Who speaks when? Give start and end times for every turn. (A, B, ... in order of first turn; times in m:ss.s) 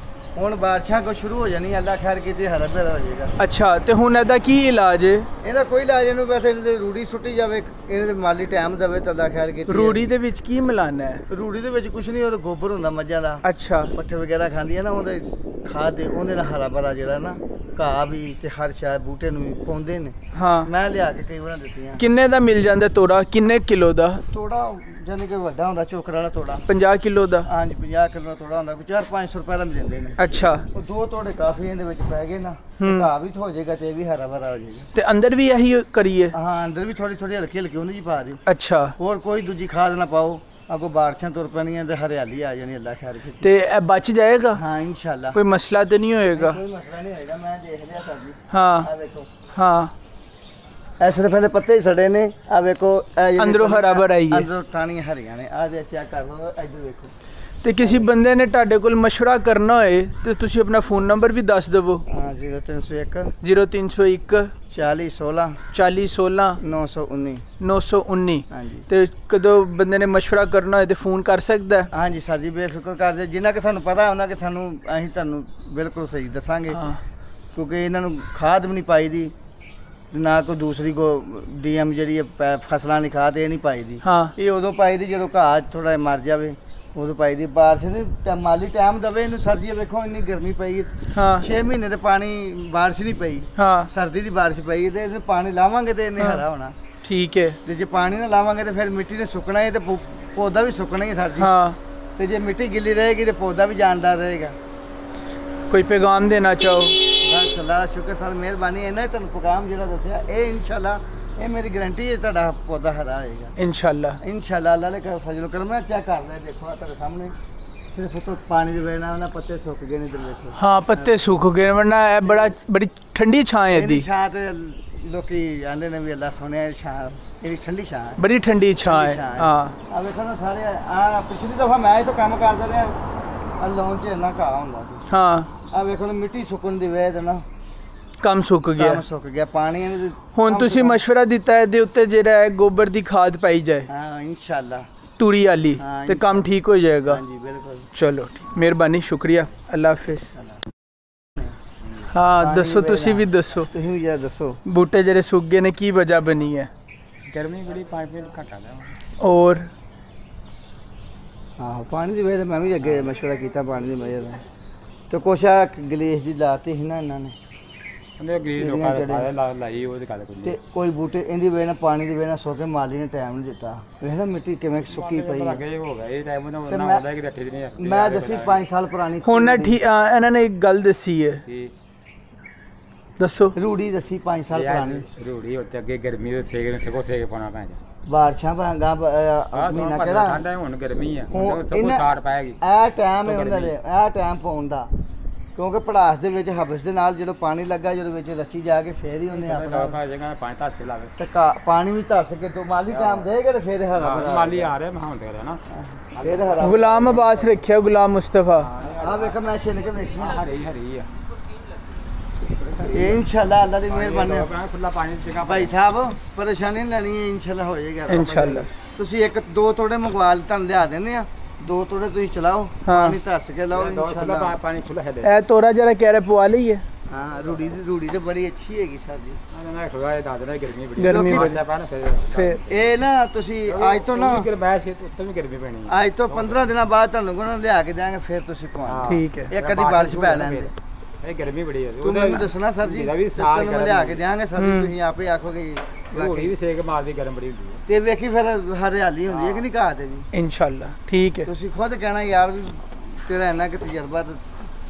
0:00.4-0:03.4 A
0:03.4-0:05.3 B
0:05.4-0:10.0 A
0:09.7-0:11.2 B
0:11.3-0:22.0 A
0:13.4-0:13.9 B
0:20.3-0:20.7 B
0:22.0-0:24.2 B
0:24.3-0:26.6 A
0:26.7-0:27.5 B
0:27.5-0:34.9 A
0:30.2-0:30.7 B
0:32.8-0:33.1 B
0:35.0-0:36.4 B
0:36.3-0:38.4 A
0:38.5-0:39.0 B
0:39.0-0:43.5 A
0:43.4-0:44.6 B
0:44.5-0:45.4 A
0:45.3-0:46.6 B
0:46.3-0:49.3 A
0:48.5-0:48.9 B
0:49.5-0:49.9 B
0:51.0-0:57.1 A
0:53.4-0:54.5 B
0:57.6-1:02.0 B
0:57.8-0:58.1 A
1:02.1-1:03.3 A
1:03.4-1:04.5 B
1:04.7-1:05.6 A
1:05.7-1:06.6 B
1:06.6-1:07.4 A
1:07.6-1:11.9 B
1:08.5-1:08.9 A
1:11.9-1:16.9 A
1:16.7-1:17.0 B
1:17.6-1:19.3 A
1:20.1-1:36.8 A
1:24.0-1:24.3 B
1:31.1-1:31.5 B
1:33.6-1:33.9 B
1:37.0-1:37.6 B
1:37.6-1:41.5 A
1:41.4-1:41.8 B
1:42.2-1:44.6 A
1:45.7-1:47.0 B
1:47.2-1:53.6 A
1:53.6-1:54.2 B
1:54.2-1:57.3 A
1:57.9-2:01.2 A
2:00.6-2:04.1 B
2:02.2-2:02.6 A
2:03.7-2:08.2 A
2:08.2-2:09.8 B
2:08.9-2:13.0 A
2:13.6-2:15.0 A
2:15.1-2:15.5 B
2:15.7-2:17.4 A
2:18.2-2:19.0 B
2:18.8-2:21.0 A
2:20.3-2:23.9 B
2:23.9-2:24.9 A
2:25.2-2:27.2 B
2:25.8-2:26.5 A
2:27.0-2:27.9 A
2:28.0-2:30.3 B
2:32.1-2:33.7 B
2:32.4-2:34.6 A
2:34.6-2:36.7 B
2:37.3-2:39.0 C
2:39.2-2:39.7 B
2:41.6-2:44.4 A
2:45.1-2:47.4 A
2:48.2-2:50.6 C
2:48.6-2:49.3 A
2:50.4-2:55.6 A
2:54.9-2:58.6 C
2:56.7-2:57.1 A
2:57.8-2:59.8 A
2:59.2-3:01.4 B
3:01.5-3:01.7 C
3:03.2-3:03.6 B
3:03.6-3:05.1 A
3:04.5-3:07.8 C
3:08.1-3:10.4 A
3:09.5-3:12.6 C
3:11.3-3:12.1 A
3:12.6-3:14.9 A
3:13.2-3:13.7 C
3:15.6-3:20.0 A
3:19.3-3:21.1 C
3:21.2-3:24.8 A
3:22.9-3:23.3 C
3:24.0-3:25.6 C
3:25.7-3:27.5 A
3:26.1-3:26.8 C
3:26.6-3:28.7 B
3:28.6-3:29.4 C
3:28.8-3:30.4 A
3:30.2-3:31.1 C
3:32.6-3:33.2 C
3:32.8-3:34.5 A
3:33.9-3:35.8 C
3:35.4-3:44.6 A
3:38.1-3:38.7 B
3:38.1-3:38.7 C
3:42.8-3:43.2 B
3:43.7-3:45.3 C
3:45.2-3:46.8 B
3:47.1-3:49.4 A
3:47.5-3:47.7 C
3:49.5-3:52.9 C
3:51.0-3:51.6 B
3:51.0-3:51.6 A
3:52.3-3:52.6 B
3:52.6-3:54.5 A
3:53.7-3:56.7 C
3:55.9-4:00.7 A
3:58.9-4:04.2 C
3:59.1-3:59.5 B
4:02.0-4:06.5 A
4:04.6-4:04.9 B
4:06.1-4:07.8 C
4:07.9-4:10.3 A
4:09.3-4:09.7 C
4:10.3-4:11.5 B
4:11.4-4:14.6 A